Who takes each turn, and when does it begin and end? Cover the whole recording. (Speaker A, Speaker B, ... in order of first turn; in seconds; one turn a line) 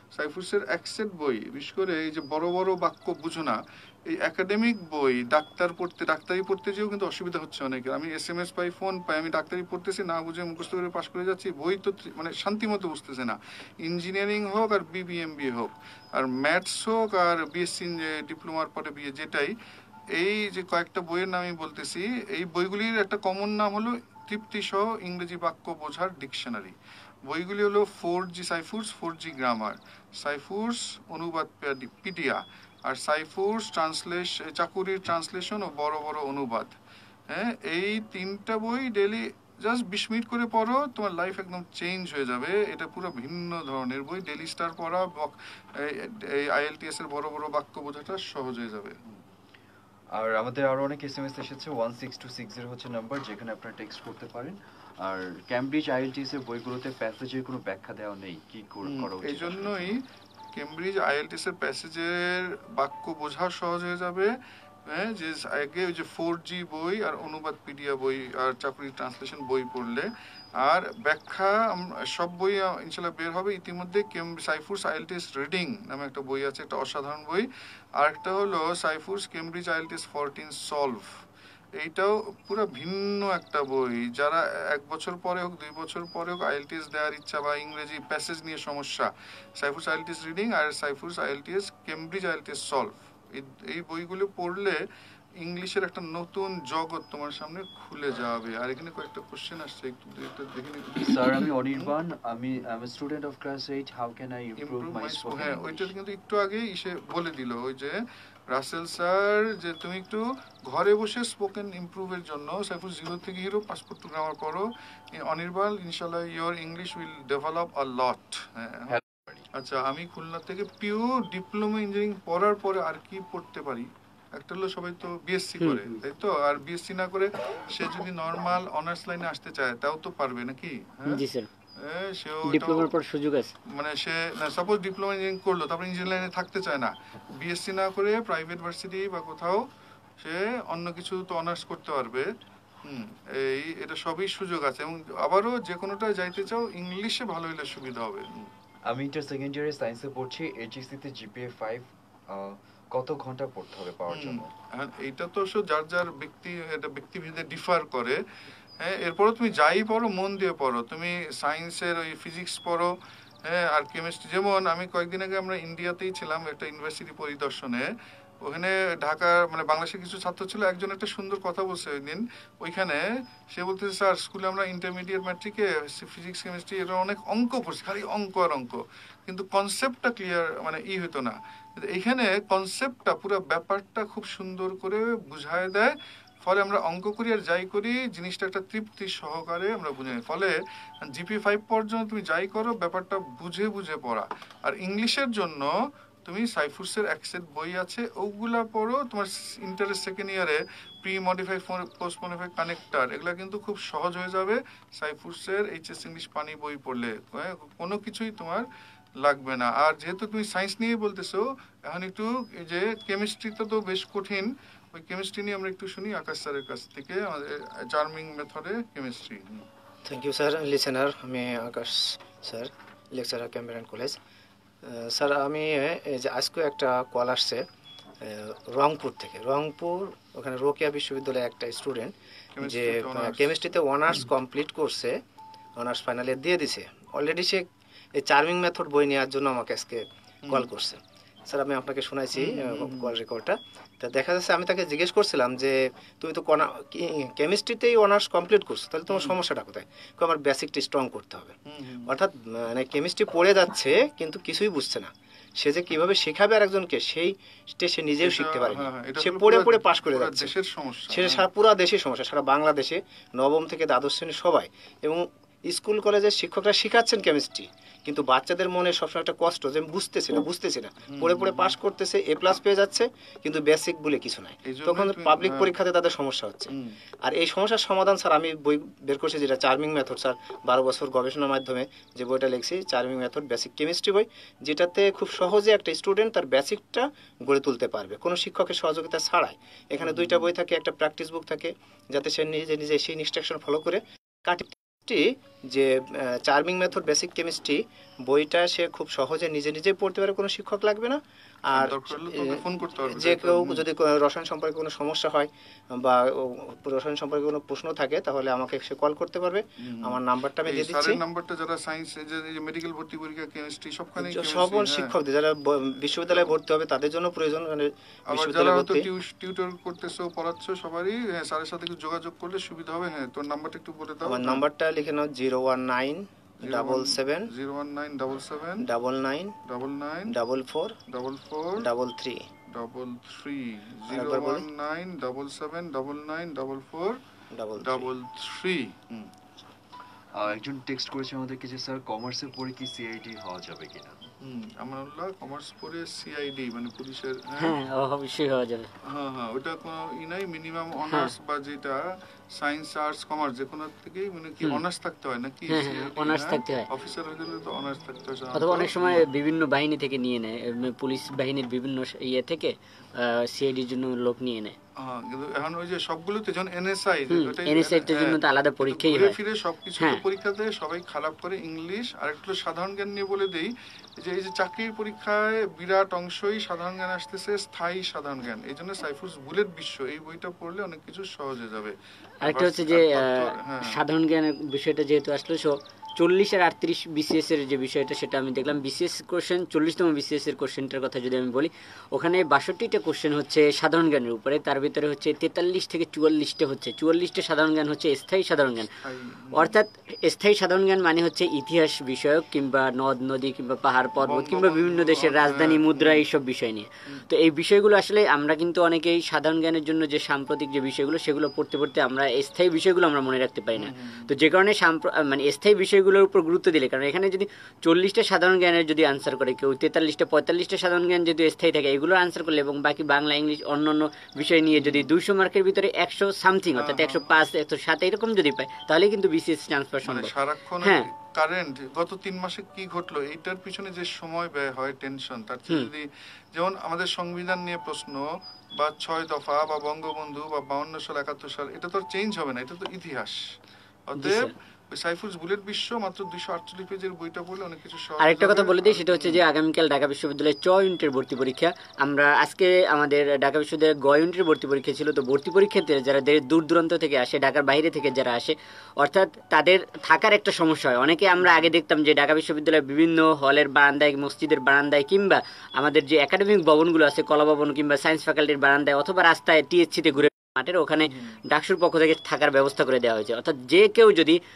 Speaker A: 0.1-19.5
Speaker A: 20.1-26.8
Speaker A: 27.3-36.8
Speaker A: 37.3-49.0
Speaker B: 50.1-60.0
Speaker A: 58.9-60.0
Speaker A: 60.5-64.3
Speaker A: 64.9-70.1
Speaker A: 70.6-77.5
Speaker A: 78.0-81.1
Speaker A: 81.8-94.8
Speaker A: 95.4-101.9
Speaker B: 101.0-105.9
Speaker A: 104.6-108.0
Speaker A: 108.5-119.0
Speaker B: 118.9-119.5
Speaker A: 119.5-131.2
Speaker C: 125.6-125.9
Speaker C: 131.1-131.5
Speaker A: 131.8-132.9
Speaker C: 132.4-133.6
Speaker A: 133.7-139.6
Speaker A: 140.2-142.3
Speaker A: 142.8-148.5
Speaker B: 148.9-154.5
Speaker A: 154.1-158.2
Speaker A: 158.8-162.9
Speaker A: 163.4-167.9
Speaker A: 168.4-185.9
Speaker A: 186.4-195.7
Speaker A: 196.3-208.7
Speaker A: 209.2-219.7
Speaker D: 220.1-224.2
Speaker D: 224.8-227.7
Speaker D: 228.2-235.2
Speaker A: 232.6-233.6
Speaker D: 235.8-260.5
Speaker A: 240.4-240.7
Speaker A: 242.3-243.1
Speaker A: 249.1-249.4
Speaker A: 251.7-252.1
Speaker A: 258.2-261.4
Speaker D: 261.1-276.7
Speaker A: 271.1-271.8
Speaker A: 274.7-275.7
Speaker D: 277.2-311.2
Speaker A: 290.0-290.5
Speaker A: 301.7-303.9
Speaker A: 309.8-315.1
Speaker D: 314.2-319.1
Speaker A: 316.3-316.5
Speaker A: 318.3-324.6
Speaker D: 324.2-327.5
Speaker A: 326.6-328.9
Speaker D: 328.8-329.6
Speaker A: 329.6-330.4
Speaker D: 330.3-331.0
Speaker A: 331.1-331.9
Speaker D: 331.8-332.5
Speaker A: 332.7-337.2
Speaker D: 334.1-334.7
Speaker D: 337.5-338.1
Speaker A: 337.8-339.3
Speaker B: 340.3-344.2
Speaker A: 344.4-347.8
Speaker C: 347.6-348.9
Speaker A: 349.1-352.0
Speaker A: 352.6-359.2
Speaker C: 355.7-356.9
Speaker C: 358.6-364.8
Speaker A: 365.0-384.0
Speaker C: 367.3-369.4
Speaker C: 370.0-370.2
Speaker C: 382.4-398.9
Speaker A: 399.0-399.8
Speaker C: 399.5-431.1
Speaker A: 404.2-406.3
Speaker A: 413.8-414.3
Speaker A: 424.8-425.1
Speaker A: 426.8-427.3
Speaker A: 430.0-438.2
Speaker A: 438.8-443.4
Speaker A: 444.1-449.4
Speaker C: 444.2-444.5
Speaker C: 448.2-474.4
Speaker A: 461.4-461.7
Speaker A: 471.1-471.4